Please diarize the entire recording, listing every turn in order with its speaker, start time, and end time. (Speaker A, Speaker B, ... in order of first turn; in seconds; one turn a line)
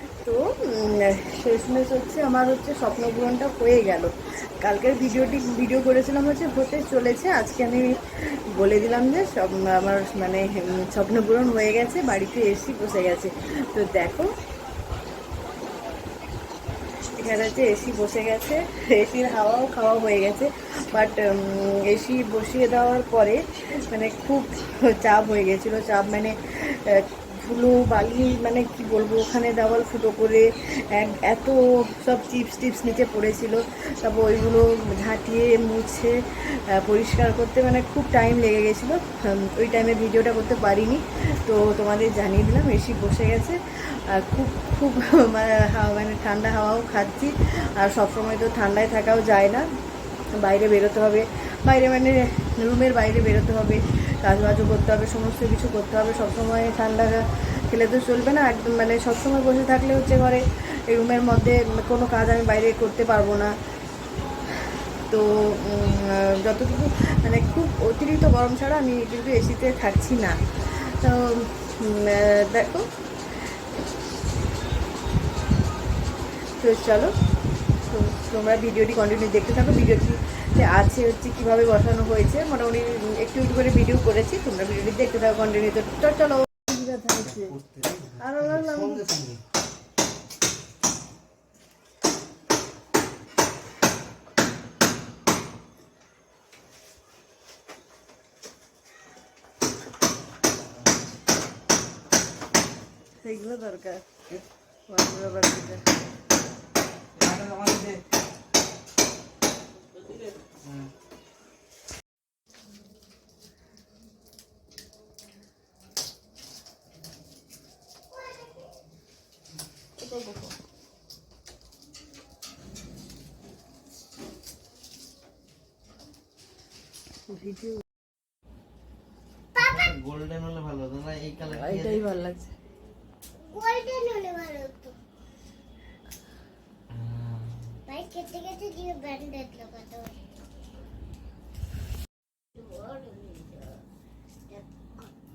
Speaker A: 0.2-14.3
Speaker A: 17.1-49.7
Speaker A: 50.4-63.6
Speaker A: 64.6-73.5
Speaker A: 76.6-77.1
Speaker A: 77.8-87.5
Speaker B: 87.3-88.2
Speaker A: 88.2-89.1
Speaker B: 88.9-89.4
Speaker A: 103.2-104.1
Speaker A: 104.9-105.8
Speaker B: 107.2-108.0
Speaker A: 120.2-120.4
Speaker A: 127.3-127.8
Speaker B: 129.6-132.0
Speaker A: 131.4-132.5
Speaker C: 133.4-134.9
Speaker B: 136.9-137.8
Speaker C: 137.9-140.2
Speaker C: 142.5-143.8